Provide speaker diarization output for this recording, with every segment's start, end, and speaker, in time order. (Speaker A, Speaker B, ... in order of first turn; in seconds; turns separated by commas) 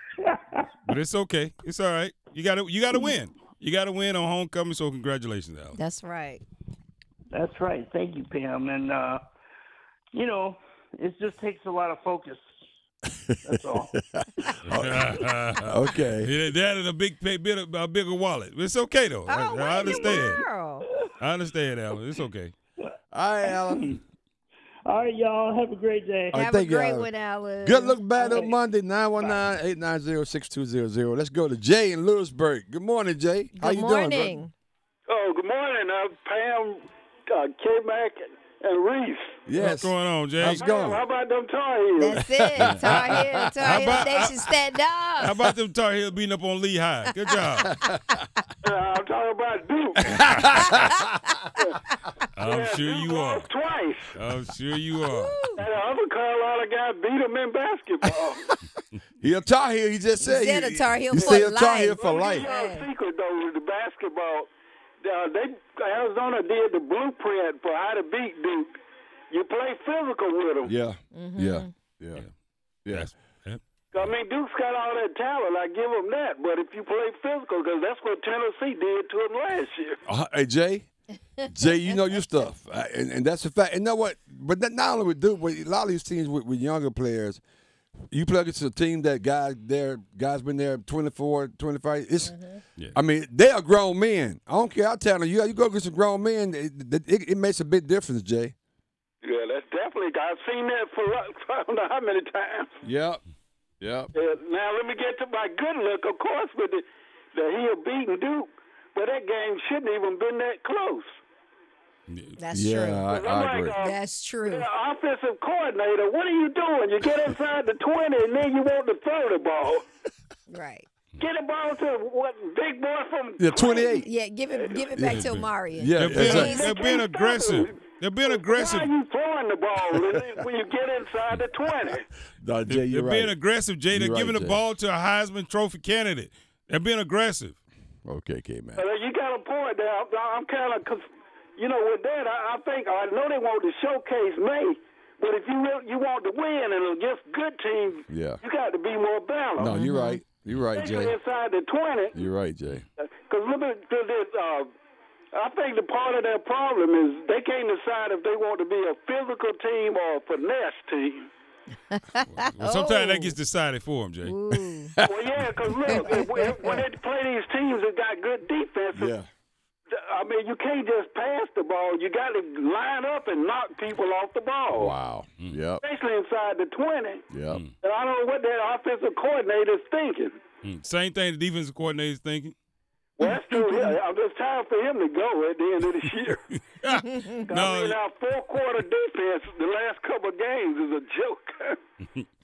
Speaker A: 0.2-0.7, Speaker B: 0.9-5.8, Speaker C: 5.8-6.4, Speaker A: 7.3-9.2, Speaker A: 10.1-12.5, Speaker A: 13.4-13.9, Speaker D: 14.1-16.3, Speaker B: 14.7-20.4, Speaker C: 19.3-20.9, Speaker A: 19.8-20.4, Speaker B: 21.2-22.6, Speaker D: 23.1-24.0, Speaker A: 23.5-24.0, Speaker A: 24.9-26.4, Speaker D: 26.3-27.1, Speaker C: 26.3-28.0, Speaker D: 27.6-34.4, Speaker A: 28.2-28.6, Speaker A: 29.2-29.5, Speaker C: 33.6-34.5, Speaker E: 35.1-39.4, Speaker D: 39.5-41.0, Speaker B: 39.6-40.6, Speaker E: 40.5-42.2, Speaker C: 42.0-45.3, Speaker D: 42.1-43.9, Speaker B: 43.6-44.5, Speaker B: 45.2-47.7, Speaker E: 48.6-50.4, Speaker D: 50.1-51.4, Speaker B: 50.3-50.7, Speaker B: 52.4-53.5, Speaker E: 52.4-54.1, Speaker B: 54.1-55.4, Speaker C: 55.1-55.6, Speaker E: 55.6-58.4, Speaker D: 59.2-62.5, Speaker C: 60.2-62.9, Speaker E: 61.2-61.4, Speaker E: 62.0-64.5, Speaker E: 65.0-68.7, Speaker E: 69.3-70.7, Speaker D: 70.7-72.2, Speaker C: 71.1-71.7, Speaker B: 72.9-73.6, Speaker E: 73.9-80.0, Speaker D: 80.1-80.9, Speaker D: 81.4-87.4, Speaker D: 88.1-92.4, Speaker C: 92.3-92.6, Speaker D: 93.0-98.5, Speaker E: 99.2-102.7, Speaker D: 102.8-103.2, Speaker D: 103.8-104.1, Speaker E: 104.1-106.8, Speaker E: 107.3-111.1, Speaker B: 112.1-112.4, Speaker C: 112.4-113.0, Speaker D: 112.5-113.8, Speaker E: 113.1-119.8, Speaker C: 113.8-114.7, Speaker C: 120.5-120.9, Speaker E: 121.2-124.0, Speaker D: 123.4-124.1, Speaker C: 124.0-126.8, Speaker D: 124.9-126.6, Speaker B: 125.1-128.9, Speaker E: 126.1-132.1, Speaker D: 132.4-133.3, Speaker B: 132.7-137.6, Speaker D: 133.9-134.6, Speaker D: 138.1-138.8, Speaker E: 138.8-141.0, Speaker E: 141.6-149.8, Speaker D: 148.1-148.4, Speaker D: 149.6-151.2, Speaker C: 149.7-150.2, Speaker E: 150.8-152.2, Speaker D: 152.2-152.8, Speaker E: 153.1-154.7, Speaker E: 155.3-161.3, Speaker C: 161.9-163.4, Speaker B: 162.2-164.4, Speaker C: 164.2-164.9, Speaker D: 164.5-166.1, Speaker E: 165.1-169.1, Speaker C: 165.9-166.8, Speaker D: 168.9-169.3, Speaker E: 169.9-174.9, Speaker D: 174.7-175.8, Speaker E: 175.8-177.2, Speaker D: 177.3-177.6, Speaker B: 177.5-177.8, Speaker E: 177.8-180.4, Speaker B: 180.6-182.6, Speaker E: 183.2-186.4, Speaker C: 183.2-183.9, Speaker B: 186.5-188.0, Speaker C: 186.9-187.4, Speaker E: 187.5-191.8